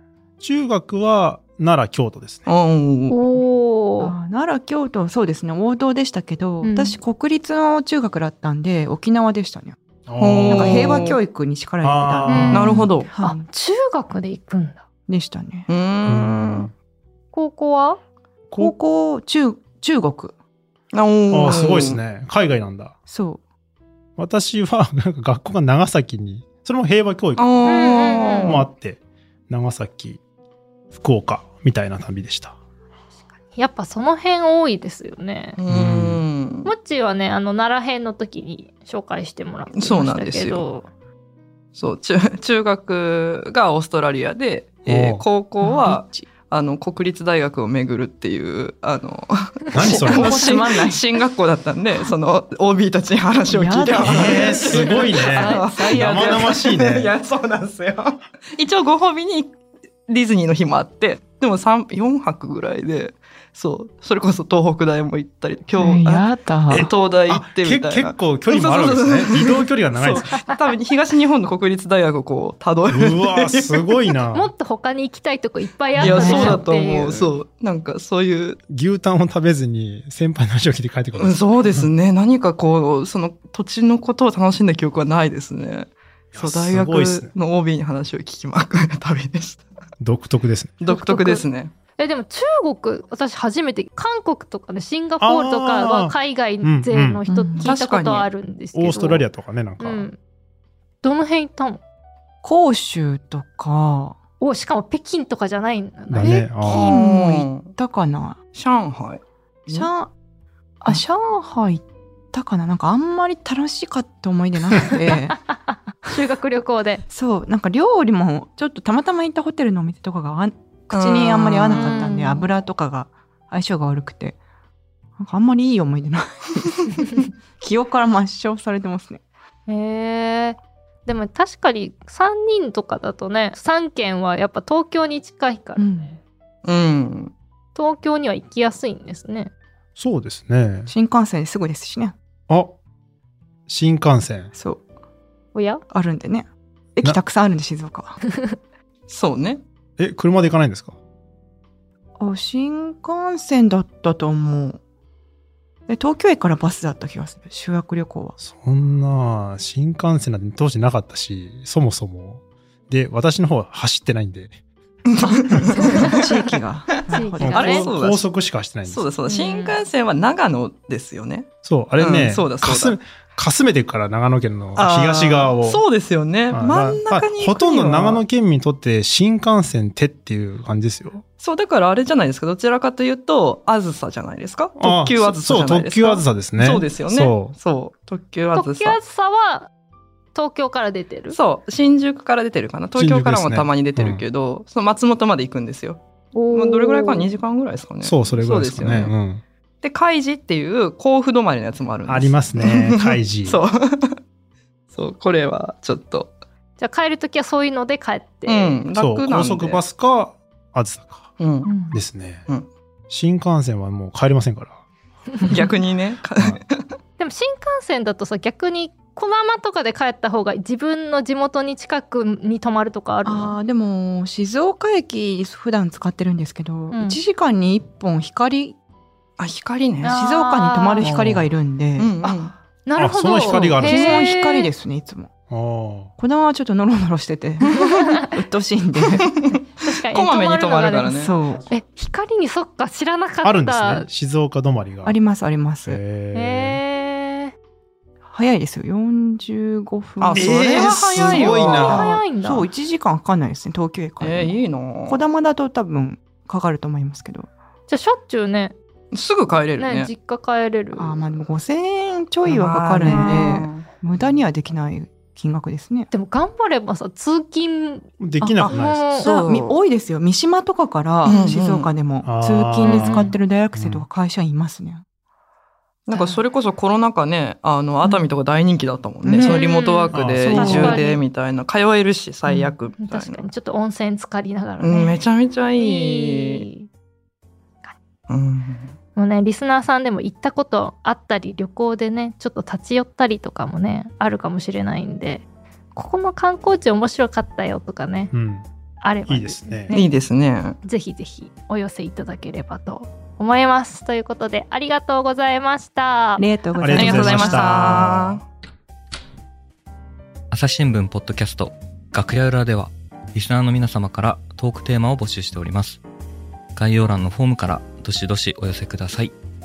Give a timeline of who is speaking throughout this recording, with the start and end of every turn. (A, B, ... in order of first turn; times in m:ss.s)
0:00.4-0:02.4 A
0:02.4-0:03.2 B
0:03.1-0:04.1 C
0:04.0-0:09.8 D
0:06.6-0:07.0 C
0:10.1-0:11.1 A
0:10.2-0:11.2 B
0:10.4-0:13.4 D
0:11.8-0:12.8 A
0:12.2-0:14.8 C
0:12.5-0:13.1 B
0:15.1-0:15.7 D
0:15.7-0:16.7 B
0:16.0-0:16.7 A
0:17.3-0:18.0 C
0:18.5-0:18.7 A
0:18.6-0:20.3 D
0:20.9-0:22.0 B
0:21.3-0:22.9 A
0:21.4-0:21.8 D
0:23.1-0:23.4 D
0:24.2-0:27.6 A
0:27.4-0:28.7 B
0:27.6-0:28.6 C
0:28.3-0:30.2 A
0:30.9-0:32.5 A
0:33.5-0:35.6 C
0:35.6-0:36.7 B
0:35.7-0:36.2 A
0:36.6-0:40.9 C
0:39.7-0:40.6 B
0:41.7-0:59.5 B
0:44.8-0:45.2 A
0:45.6-0:46.2 D
0:49.7-0:50.6 A
0:49.9-0:51.0 D
0:53.5-0:56.5 D
0:54.0-0:57.1 A
0:55.4-0:55.7 C
1:00.1-1:14.0 B
1:05.8-1:06.9 D
1:06.7-1:10.4 A
1:10.1-1:10.5 C
1:12.9-1:14.5 A
1:14.3-1:17.3 C
1:16.0-1:18.6 B
1:16.0-1:16.6 D
1:18.7-1:21.9 A
1:21.2-1:29.6 B
1:26.3-1:27.3 A
1:30.0-1:30.8 A
1:30.8-1:31.7 B
1:30.8-1:31.4 C
1:32.0-1:39.2 C
1:35.2-1:37.2 A
1:37.3-1:37.7 D
1:37.6-1:38.3 B
1:38.7-1:40.1 A
1:39.8-1:40.2 C
1:41.0-1:41.8 C
1:42.4-1:44.2 D
1:44.4-1:46.7 C
1:46.1-1:46.9 A
1:46.6-1:48.4 D
1:46.7-1:47.7 B
1:48.5-1:49.9 B
1:49.7-1:50.1 D
1:50.8-1:55.4 D
1:55.5-1:57.0 C
1:57.1-2:04.4 D
2:00.9-2:02.0 B
2:01.7-2:02.5 C
2:05.2-2:09.2 D
2:09.7-2:16.0 C
2:15.8-2:16.1 D
2:16.6-2:17.3 B
2:17.7-2:19.5 C
2:20.0-2:20.9 A
2:20.9-2:22.1 D
2:22.5-2:22.7 A
2:23.7-2:24.5 A
2:24.5-2:24.8 D
2:25.5-2:25.8 C
2:25.9-2:28.2 D
2:29.1-2:29.6 B
2:30.0-2:30.9 A
2:32.2-2:34.8 D
2:35.9-2:38.4 D
2:38.4-2:44.6 A
2:45.1-2:46.3 B
2:45.2-2:47.9 D
2:45.7-2:46.2 C
2:47.1-2:47.8 C
2:47.4-2:49.1 A
2:47.5-2:48.3 B
2:48.8-2:53.0 B
2:49.3-2:49.8 C
2:51.6-2:55.8 A
2:54.7-2:58.2 B
2:56.5-3:01.2 A
3:01.4-3:09.0 B
3:04.8-3:07.6 A
3:08.5-3:09.7 C
3:10.3-3:11.4 C
3:11.3-3:16.0 B
3:12.9-3:14.2 A
3:16.3-3:17.3 C
3:16.5-3:19.1 B
3:18.0-3:19.4 A
3:19.8-3:24.2 B
3:22.0-3:23.6 A
3:24.9-3:26.3 B
3:26.8-3:28.8 C
3:28.4-3:29.8 B
3:28.9-3:31.3 A
3:31.4-3:31.7 B
3:31.6-3:32.0 C
3:31.9-3:32.4 A
3:33.1-3:34.8 A
3:35.5-3:36.9 B
3:37.2-3:43.6 C
3:43.2-3:48.8 D
3:46.9-3:47.2 C
3:49.4-3:50.2 B
3:50.0-3:51.2 C
3:50.0-3:52.2 D
3:51.0-3:51.5 A
3:52.0-3:52.5 B
3:52.2-3:54.7 C
3:53.0-3:54.3 A
3:53.8-3:55.3 D
3:55.5-3:56.1 A
3:56.2-3:59.3 D
3:57.8-3:58.3 C
3:59.0-4:01.3 B
3:59.8-4:04.1 C
4:01.1-4:01.7 D
4:03.4-4:05.2 A
4:05.0-4:06.0 D
4:05.8-4:06.8 A
4:06.3-4:07.5 C
4:08.3-4:11.0 D
4:10.2-4:12.1 B
4:10.3-4:12.0 A
4:11.2-4:12.7 C
4:11.6-4:17.5 D
4:14.2-4:15.2 B
4:17.9-4:18.7 C
4:19.1-4:20.1 B
4:19.8-4:21.3 C
4:21.0-4:26.1 D
4:22.4-4:23.8 B
4:26.1-4:29.3 C
4:28.2-4:29.1 A
4:28.7-4:29.8 B
4:29.2-4:35.0 D
4:31.2-4:31.9 B
4:32.2-4:34.0 A
4:32.8-4:33.3 C
4:36.1-4:43.4 B
4:39.2-4:39.6 D
4:39.4-4:41.2 C
4:40.1-4:40.9 A
4:40.4-4:41.1 D
4:42.4-4:42.7 D
4:43.0-4:45.2 C
4:44.8-4:46.6 B
4:45.8-4:46.9 C
4:48.3-4:48.9 B
4:49.2-4:55.4 C
4:55.9-4:58.3 C
4:58.3-4:58.6 A
4:59.0-5:00.1 C
4:59.3-4:59.9 A
4:59.9-5:00.8 B
5:00.8-5:06.4 C
5:06.4-5:08.1 D
5:06.8-5:08.4 A
5:06.9-5:08.4 B
5:07.0-5:07.6 C
5:10.5-5:16.0 E
5:16.7-5:19.3 E